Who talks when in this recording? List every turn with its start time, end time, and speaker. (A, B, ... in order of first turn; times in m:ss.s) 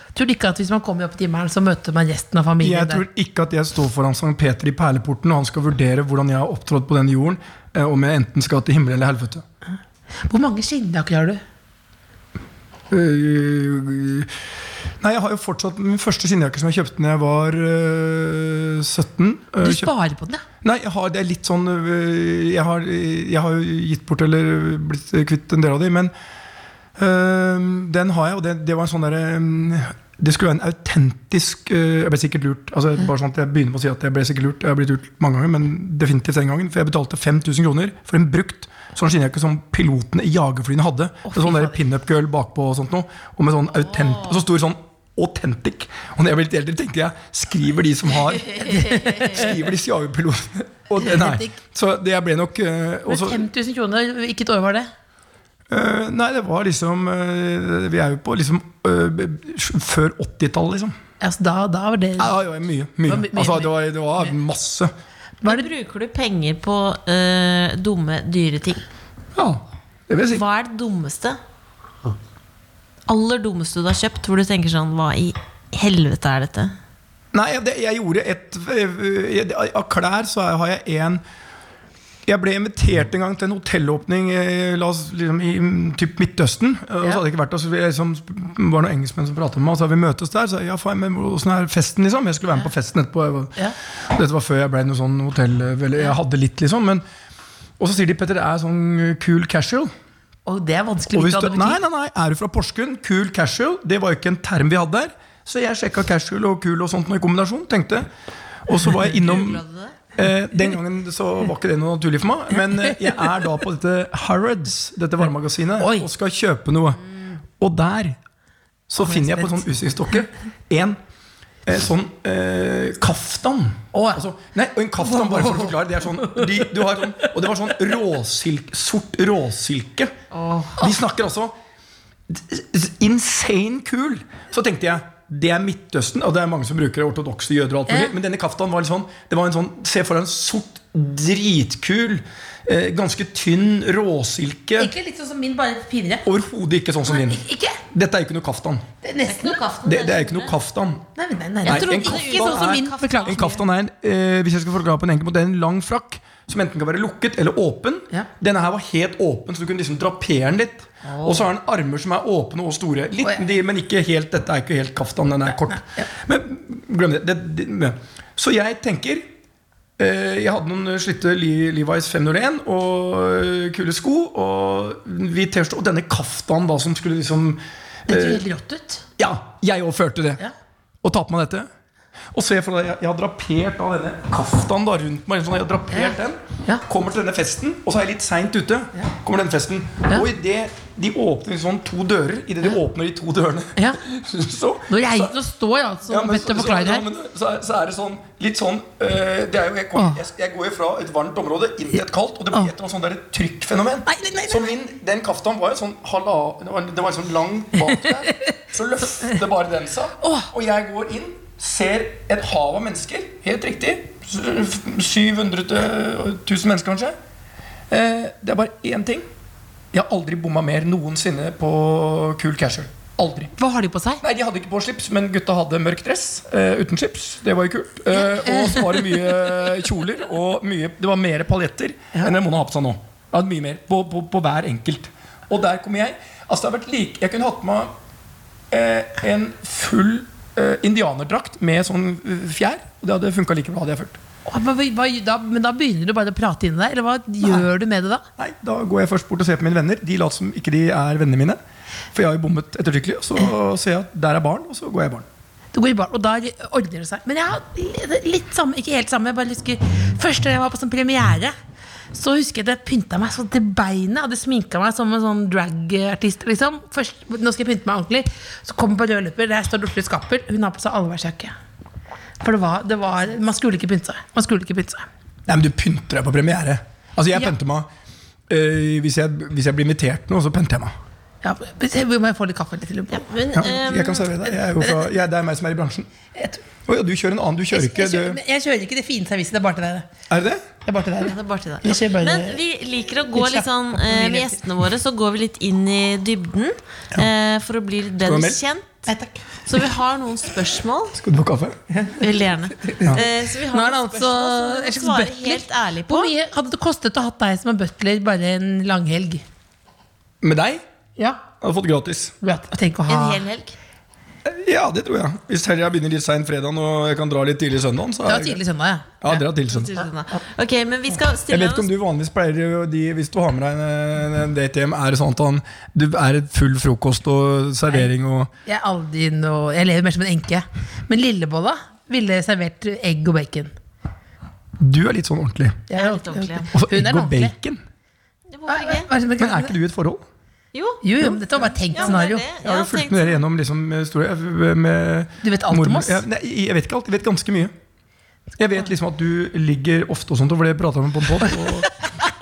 0:00.2-0:03.0 A
0:02.6-0:09.4 B
0:10.2-0:11.4 A
0:12.9-0:14.3 B
0:15.0-0:19.9 B
0:19.6-0:20.4 A
0:20.6-0:26.1 B
0:27.0-0:53.5 B
0:41.3-0:41.8 A
0:43.9-0:44.3 C
0:48.2-0:49.5 C
0:48.6-0:49.5 A
0:51.0-0:51.5 A
0:53.1-0:54.9 A
0:55.7-1:01.0 B
1:01.2-1:02.3 A
1:02.2-1:04.9 B
1:03.1-1:04.3 A
1:05.4-1:05.7 A
1:05.4-1:08.8 C
1:09.4-1:10.4 B
1:10.3-1:11.4 C
1:13.1-1:16.7 C
1:17.3-1:21.2 B
1:22.3-1:37.0 B
1:37.8-1:39.9 B
1:40.5-1:41.8 A
1:41.1-1:48.1 B
1:48.7-1:49.6 B
1:48.9-1:50.0 C
1:50.2-1:58.2 B
1:55.8-1:56.1 A
1:58.9-2:01.0 B
1:59.0-1:59.7 A
2:01.7-2:10.1 B
2:03.9-2:04.2 A
2:05.0-2:07.3 A
2:10.3-2:10.8 C
2:10.8-2:11.5 B
2:12.3-2:24.9 B
2:17.9-2:18.1 A
2:24.8-2:26.3 A
2:26.2-2:28.9 B
2:27.0-2:27.8 A
2:29.0-2:29.6 A
2:29.2-2:30.5 C
2:29.8-2:31.0 B
2:31.2-2:33.6 A
2:31.6-2:33.4 C
2:31.6-2:49.2 B
2:41.0-2:41.5 A
2:45.7-2:46.1 A
2:50.0-2:58.4 B
2:58.1-2:59.0 A
2:59.2-3:00.4 B
3:01.0-3:01.7 B
3:02.3-3:15.4 B
3:05.9-3:06.8 A
3:14.9-3:17.0 A
3:16.1-3:37.1 B
3:24.1-3:24.7 A
3:30.2-3:30.5 A
3:37.9-3:39.3 B
3:39.9-3:43.5 B
3:43.6-3:44.2 A
3:44.2-3:57.9 B
3:48.4-3:49.0 A
3:58.7-4:04.2 B
4:04.5-4:08.2 A
4:08.4-4:11.6 B
4:12.1-4:15.3 B
4:15.7-4:21.5 A
4:22.1-4:31.5 A
4:32.4-4:35.1 A
4:35.5-4:37.9 B
4:38.5-4:40.9 B
4:41.4-4:43.3 A
4:43.1-4:44.3 C
4:43.5-4:46.1 B
4:44.6-4:45.1 A
4:46.3-4:46.6 A
4:46.8-4:48.4 B
4:47.7-4:50.1 A
4:50.3-4:50.6 B
4:50.9-4:52.6 A
4:51.2-4:59.1 C
4:53.3-4:54.6 A
4:58.2-4:58.6 B
4:59.1-4:59.4 A
4:59.7-5:01.2 C
5:01.2-5:01.8 B
5:01.9-5:02.2 A
5:02.2-5:06.3 C
5:02.9-5:09.4 A
5:10.4-5:10.8 B
5:11.2-5:11.4 A
5:11.6-5:12.3 B
5:12.4-5:13.4 A
5:13.1-5:13.8 C
5:14.4-5:18.6 B
5:18.3-5:19.2 A
5:19.2-5:20.0 B
5:19.6-5:21.9 C
5:21.5-5:28.5 B
5:28.7-5:33.7 A
5:34.8-5:35.8 B
5:35.9-5:37.5 A
5:35.9-5:36.7 C
5:36.7-5:37.8 B
5:38.5-5:39.1 C
5:38.7-5:39.8 A
5:39.4-5:40.3 B
5:40.7-5:41.0 C
5:41.0-5:42.5 A
5:41.2-5:41.7 B
5:41.9-5:43.4 C
5:42.6-5:47.7 B
5:45.4-5:46.2 A
5:48.6-5:51.9 B
5:51.5-5:52.0 A